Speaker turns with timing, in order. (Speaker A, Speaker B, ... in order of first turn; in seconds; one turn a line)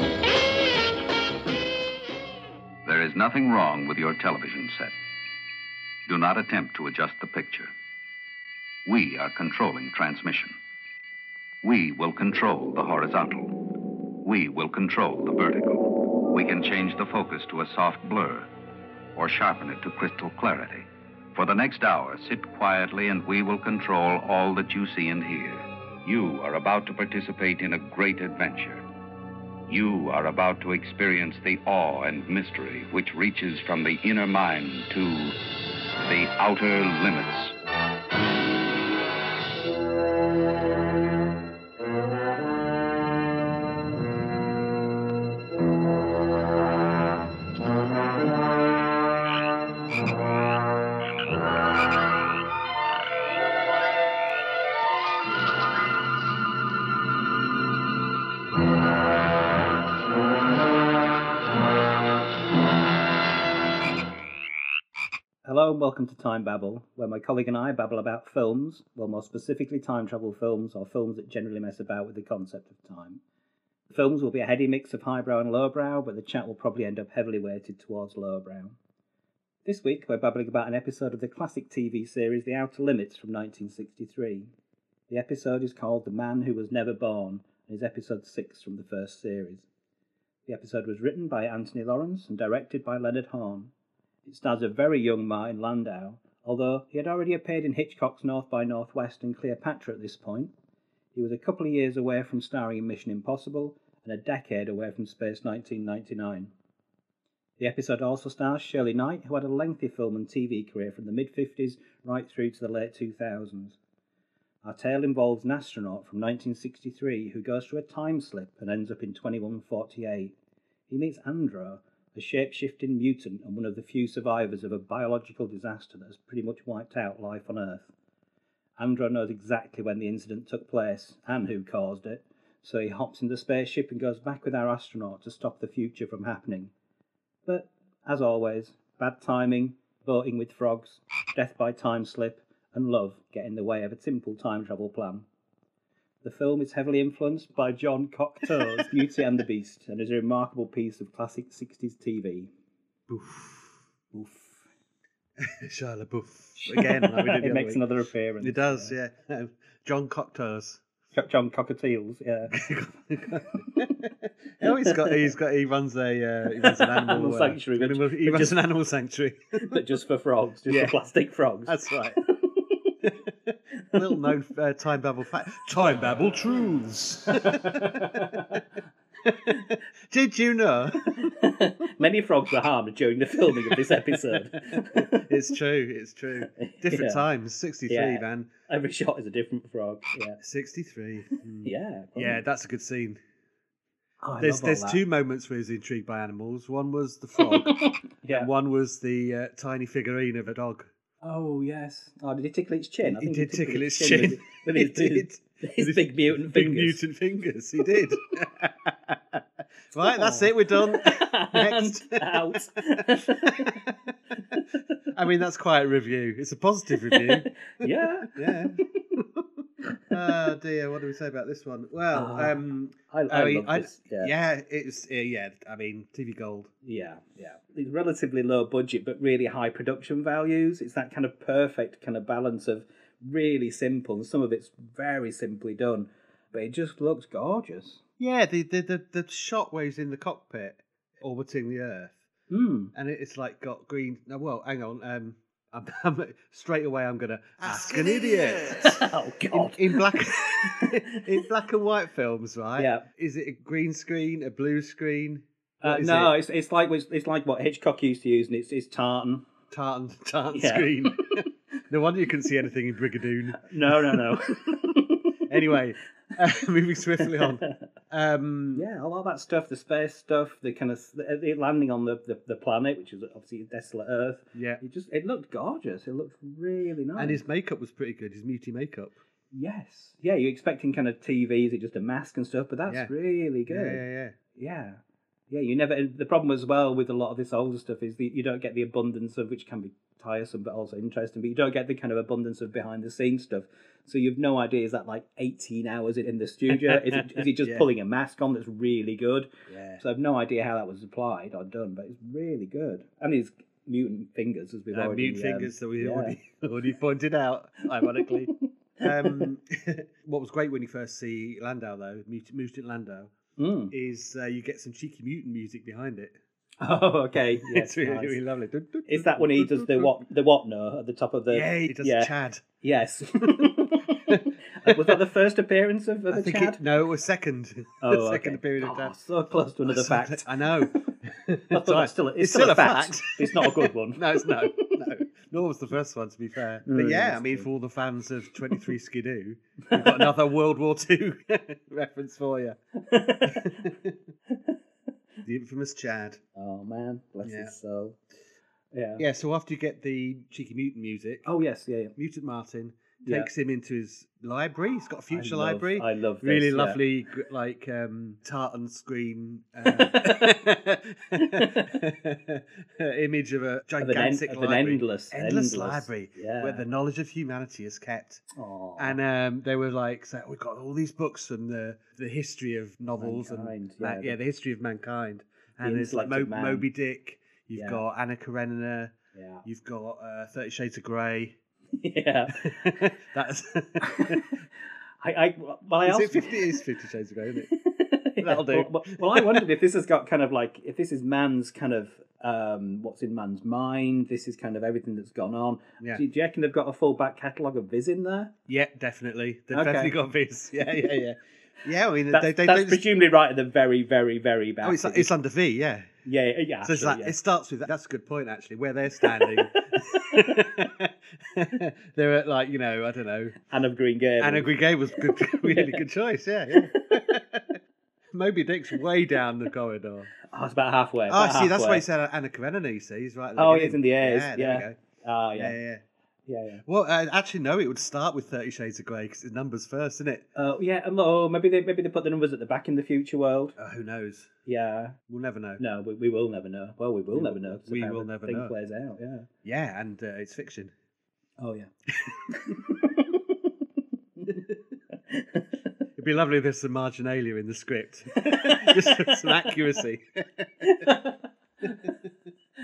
Speaker A: 2.9-4.9
Speaker A: 6.1-7.7
Speaker A: 8.9-10.6
Speaker A: 11.6-13.5
Speaker A: 14.2-18.5
Speaker A: 19.2-28.8
Speaker A: 29.7-35.4
Speaker A: 36.0-37.5
Speaker B: 65.5-73.2
Speaker B: 73.9-78.8
Speaker B: 79.7-84.5
Speaker B: 85.1-89.7
Speaker B: 90.5-93.7
Speaker B: 94.3-100.5
Speaker B: 101.2-106.5
Speaker B: 107.6-113.8
Speaker B: 114.6-120.3
Speaker B: 120.9-127.9
Speaker B: 128.8-136.7
Speaker B: 137.5-145.3
Speaker B: 146.2-152.5
Speaker C: 148.5-148.9
Speaker C: 153.1-153.8
Speaker B: 154.1-154.6
Speaker C: 155.4-157.8
Speaker B: 156.6-158.9
Speaker C: 158.4-160.8
Speaker B: 161.1-162.6
Speaker C: 162.5-169.8
Speaker B: 164.6-165.3
Speaker B: 166.5-168.6
Speaker B: 169.6-172.9
Speaker C: 170.7-171.0
Speaker C: 171.7-172.2
Speaker C: 173.0-178.6
Speaker B: 173.9-174.3
Speaker B: 177.6-178.6
Speaker C: 179.2-181.4
Speaker B: 181.1-185.3
Speaker C: 183.5-188.5
Speaker B: 186.6-187.2
Speaker B: 187.9-190.4
Speaker C: 190.4-193.2
Speaker B: 191.6-192.4
Speaker B: 194.2-195.0
Speaker C: 194.4-200.9
Speaker B: 198.2-198.5
Speaker B: 201.2-207.0
Speaker C: 203.0-214.1
Speaker B: 210.0-213.8
Speaker C: 215.1-226.7
Speaker B: 217.1-218.9
Speaker B: 219.9-220.3
Speaker B: 222.1-224.3
Speaker B: 226.8-238.0
Speaker C: 238.2-242.2
Speaker B: 242.5-242.9
Speaker C: 242.9-256.3
Speaker B: 247.7-247.9
Speaker B: 248.8-251.2
Speaker B: 252.8-253.1
Speaker B: 255.8-259.5
Speaker C: 259.7-264.7
Speaker B: 260.5-261.4
Speaker B: 263.6-265.4
Speaker C: 265.5-268.9
Speaker B: 268.7-277.4
Speaker C: 274.5-274.8
Speaker C: 277.2-279.2
Speaker B: 279.5-284.0
Speaker C: 283.7-284.4
Speaker B: 284.6-306.4
Speaker C: 296.7-297.9
Speaker C: 299.7-300.0
Speaker C: 304.9-313.3
Speaker B: 309.0-309.5
Speaker B: 313.6-313.9
Speaker C: 313.9-316.4
Speaker B: 316.8-318.4
Speaker C: 317.6-320.1
Speaker B: 319.1-326.8
Speaker C: 321.5-322.6
Speaker C: 323.4-323.7
Speaker C: 324.3-325.2
Speaker C: 326.3-329.1
Speaker B: 328.0-331.1
Speaker C: 329.9-342.8
Speaker B: 331.7-335.0
Speaker B: 336.9-337.7
Speaker B: 339.9-340.3
Speaker B: 343.0-343.9
Speaker C: 343.5-344.2
Speaker C: 345.4-346.4
Speaker B: 346.6-348.2
Speaker C: 347.4-347.7
Speaker B: 348.9-349.2
Speaker C: 349.2-351.5
Speaker B: 351.4-352.1
Speaker C: 352.2-368.4
Speaker B: 353.2-353.5
Speaker B: 355.3-357.0
Speaker B: 359.9-360.5
Speaker B: 361.4-362.0
Speaker B: 364.0-366.8
Speaker B: 368.5-369.2
Speaker C: 369.0-381.6
Speaker B: 373.2-374.4
Speaker B: 375.8-376.9
Speaker B: 377.8-378.0
Speaker B: 379.3-379.6
Speaker B: 381.9-383.1
Speaker C: 382.5-384.6
Speaker B: 384.0-384.6
Speaker B: 385.2-386.8
Speaker C: 386.1-387.7
Speaker B: 387.7-398.5
Speaker C: 388.4-389.7
Speaker C: 398.7-403.0
Speaker B: 399.7-400.1
Speaker B: 402.3-405.3
Speaker C: 404.8-406.1
Speaker B: 406.2-407.4
Speaker C: 406.8-413.6
Speaker B: 409.5-410.6
Speaker B: 413.7-416.0
Speaker C: 414.4-417.8
Speaker B: 416.7-417.2
Speaker C: 418.3-420.3
Speaker B: 420.5-422.0
Speaker C: 421.3-425.0
Speaker B: 423.6-425.8
Speaker C: 425.6-426.0
Speaker B: 426.5-426.8
Speaker C: 426.9-430.5
Speaker B: 430.6-433.8
Speaker C: 433.8-434.5
Speaker B: 434.7-435.2
Speaker C: 435.3-435.8
Speaker B: 435.8-439.5
Speaker C: 437.3-438.7
Speaker C: 439.6-440.9
Speaker B: 441.6-443.7
Speaker B: 444.4-444.6
Speaker B: 445.3-445.8
Speaker C: 446.2-451.0
Speaker B: 448.4-449.7
Speaker B: 450.8-452.1